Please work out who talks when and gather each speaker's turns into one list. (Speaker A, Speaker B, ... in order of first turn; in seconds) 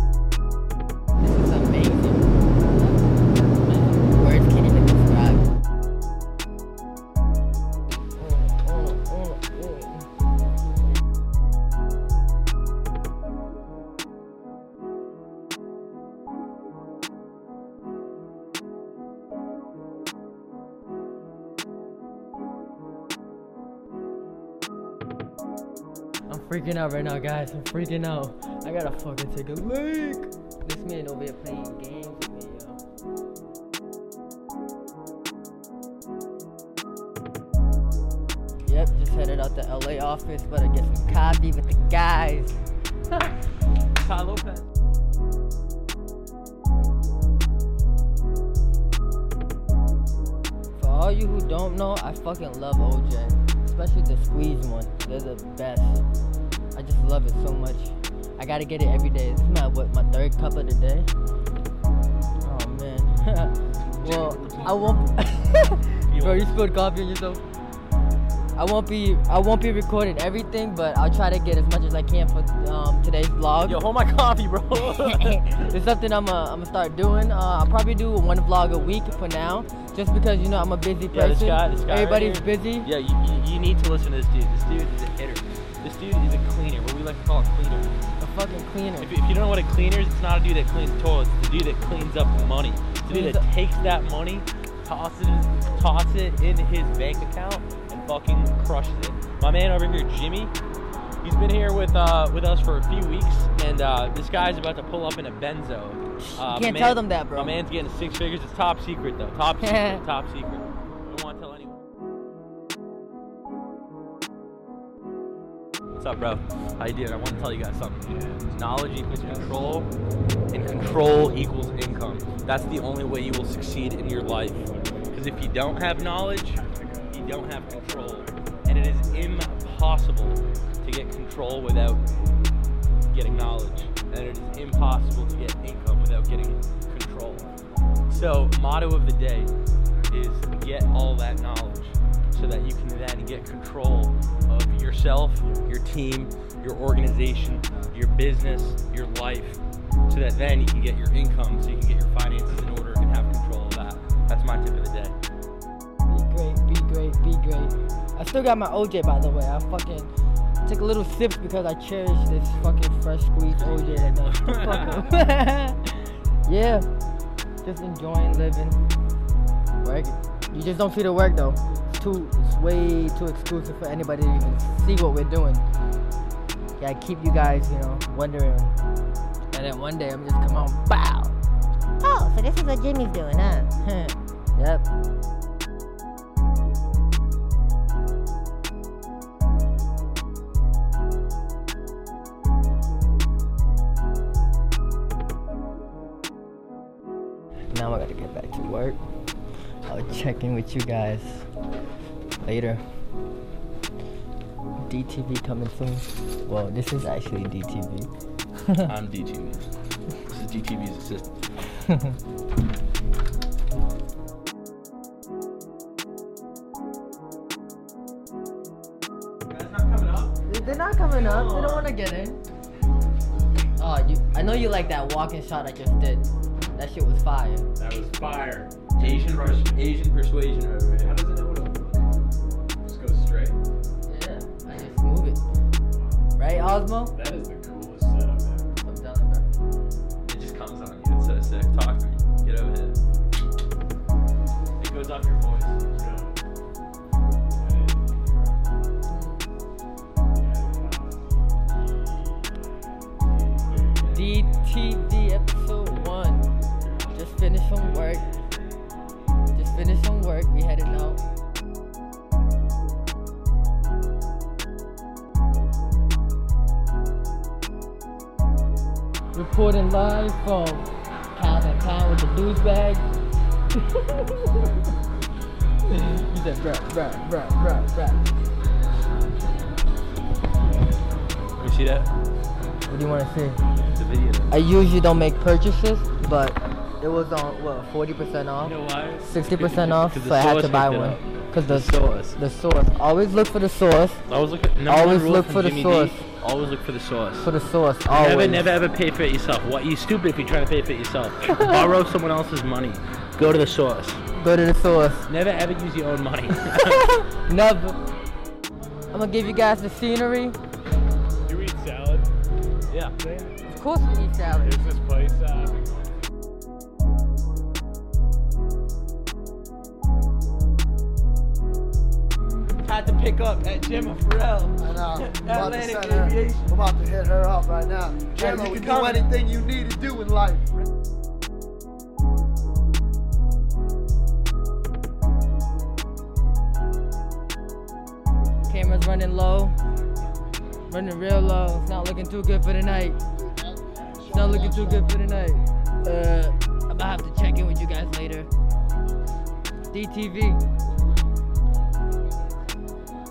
Speaker A: 1.2-5.5, 8.2-10.1, 26.3-32.8, 38.7-42.6, 50.8-56.0, 56.8-61.1, 62.4-67.4, 68.6-73.8, 74.9-82.9, 88.2-89.1, 93.1-93.5, 106.2-107.6, 109.6-110.0, 156.1-160.1, 160.6-165.8, 166.4-166.9, 167.6-168.8, 169.8-175.7, 176.8-178.8, 179.5-181.4, 182.0-184.9, 197.7-199.0, 199.9-201.5, 202.4-202.8, 204.8-208.1, 220.5-222.4, 223.8-227.7, 234.1-235.4, 236.4-237.1, 238.8-239.5, 249.1-249.5, 254.1-256.5, 257.1-258.2, 259.5-261.2, 269.3-273.1, 273.9-274.7, 275.9-278.3, 282.9-283.6, 284.5-294.2, 294.9-296.2, 297.4-298.7, 304.4-305.3, 306.9-308.0, 309.1-310.6, 313.7-314.9, 338.7-339.8, 340.9-343.2, 344.2-348.5, 349.9-350.6
Speaker B: 44.0-44.6, 64.0-65.1, 66.1-66.6, 73.7-75.7, 81.1-87.9, 89.0-100.5, 101.2-111.8, 116.0-119.9, 120.5-132.0, 133.1-137.5, 138.1-139.5, 140.1-155.2, 163.6-165.1, 208.8-209.7, 210.2-211.4, 219.5-221.9, 229.0-231.2, 240.3-243.0, 244.8-245.9, 281.6-282.1, 283.9-284.5, 288.6-292.4, 294.3-297.5, 298.1-304.2, 305.3-307.1, 312.9-313.1, 322.8-326.8, 328.3-329.3
Speaker C: 118.0-118.6, 119.1-119.8, 120.9-122.4, 124.3-130.6, 131.9-132.2, 227.8-229.9, 231.0-232.1, 232.8-233.6, 237.1-238.8, 245.9-246.4, 247.5-248.6, 250.3-254.5, 311.4-312.3, 313.2-313.6, 314.6-315.9
Speaker D: 324.8-330.6, 343.4-345.1